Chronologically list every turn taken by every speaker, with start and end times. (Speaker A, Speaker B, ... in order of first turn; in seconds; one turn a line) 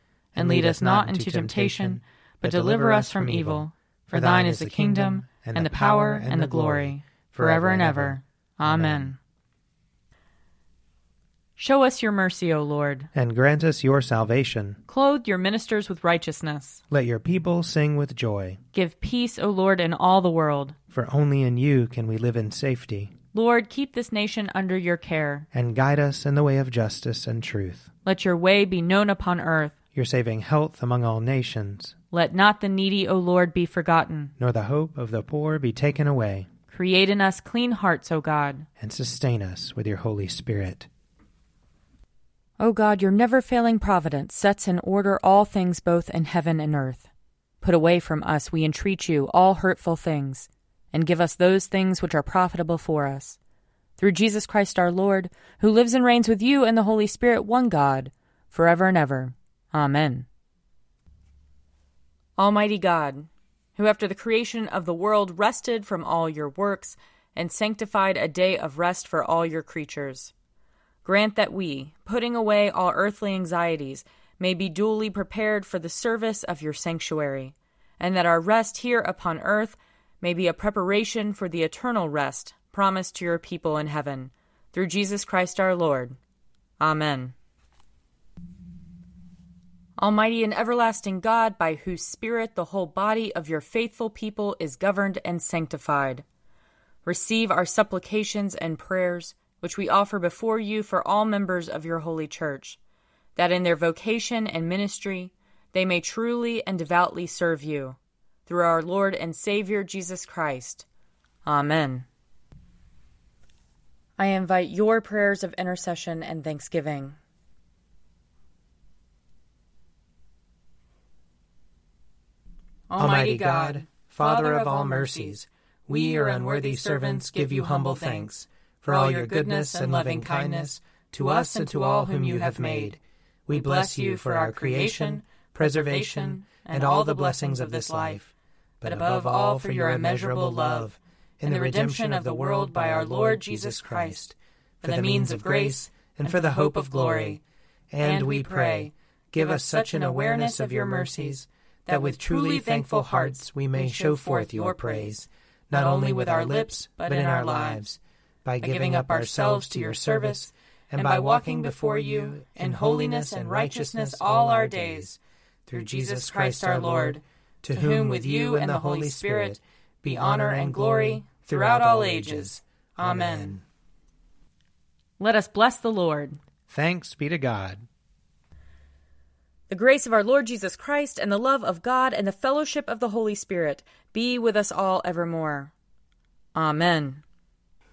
Speaker A: 0.3-9.2
Speaker B: 0.3-9.2
Speaker B: 11.6-13.1
Speaker A: 13.1-14.8
Speaker B: 14.9-16.8
Speaker A: 16.9-18.6
Speaker B: 18.7-20.7
Speaker A: 20.9-23.1
Speaker B: 23.3-25.4
Speaker A: 25.5-27.9
Speaker B: 28.0-29.7
Speaker A: 29.9-31.9
Speaker B: 32.1-34.3
Speaker A: 34.4-36.5
Speaker B: 36.7-38.7
Speaker A: 38.8-40.9
Speaker B: 42.6-47.1
Speaker B: 47.6-53.4
Speaker B: 54.0-60.3
Speaker B: 62.4-70.3
Speaker B: 71.0-86.2
Speaker B: 86.8-87.3
Speaker B: 90.0-96.2
Speaker B: 97.0-102.8
Speaker B: 103.3-110.8
Speaker B: 111.4-112.1
Speaker B: 114.2-117.2
Speaker B: 122.9-128.3
Speaker A: 123.0-147.4
Speaker B: 128.9-133.0
Speaker B: 133.5-138.2
Speaker B: 138.8-140.9
Speaker B: 141.4-144.2
Speaker B: 144.8-147.4
Speaker A: 147.9-173.6
Speaker B: 148.0-157.9
Speaker B: 158.6-165.1
Speaker B: 165.7-167.2
Speaker B: 167.7-173.6
Speaker B: 175.2-176.4
Speaker A: 176.7-177.8
Speaker B: 179.7-185.7
Speaker B: 186.5-187.2